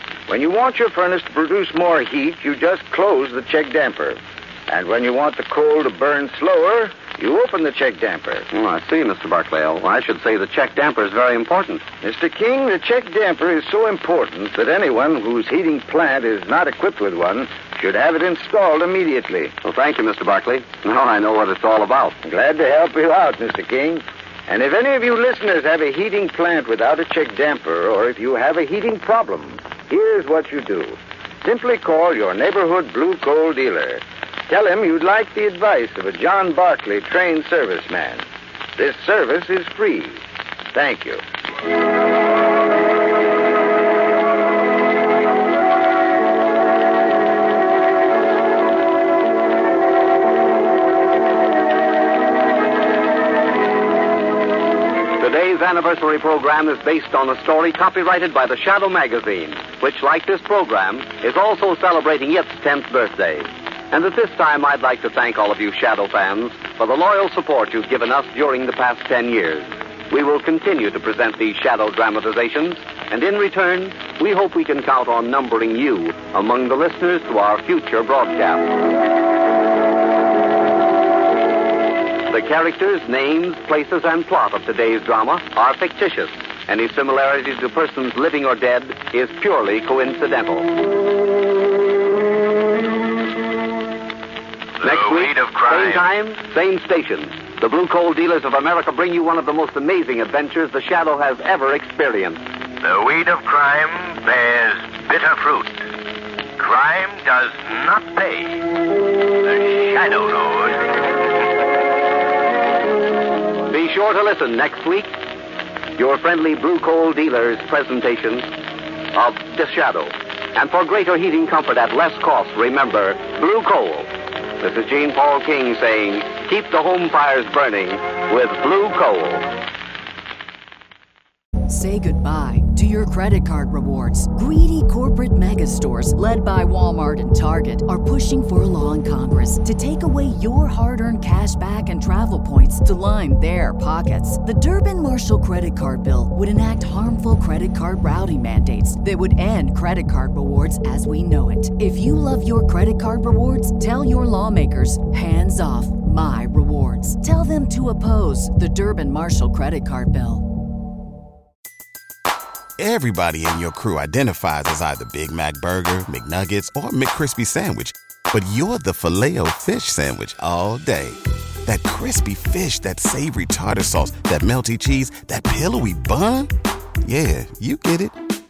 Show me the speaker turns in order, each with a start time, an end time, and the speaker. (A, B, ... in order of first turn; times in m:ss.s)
0:00.3-0:08.5 A
0:08.5-0:11.8 B
0:12.0-0:19.5 A
0:19.6-0:22.2 B
0:22.2-0:38.2 A
0:38.8-0:40.2 A
0:40.7-0:41.2 A
0:55.2-1:18.7 B
1:22.3-1:30.7 B
1:34.8-1:36.0 C
1:34.8-1:42.4 B
1:42.8-1:45.8 C
1:46.6-1:48.6 C
1:49.4-1:51.0 C
1:53.7-1:55.1 B
1:56.0-1:58.5 B
1:59.1-2:04.1 B
2:04.6-2:09.4 B
2:11.7-2:40.4 D
2:42.8-2:56.5 E
2:57.0-2:58.2 E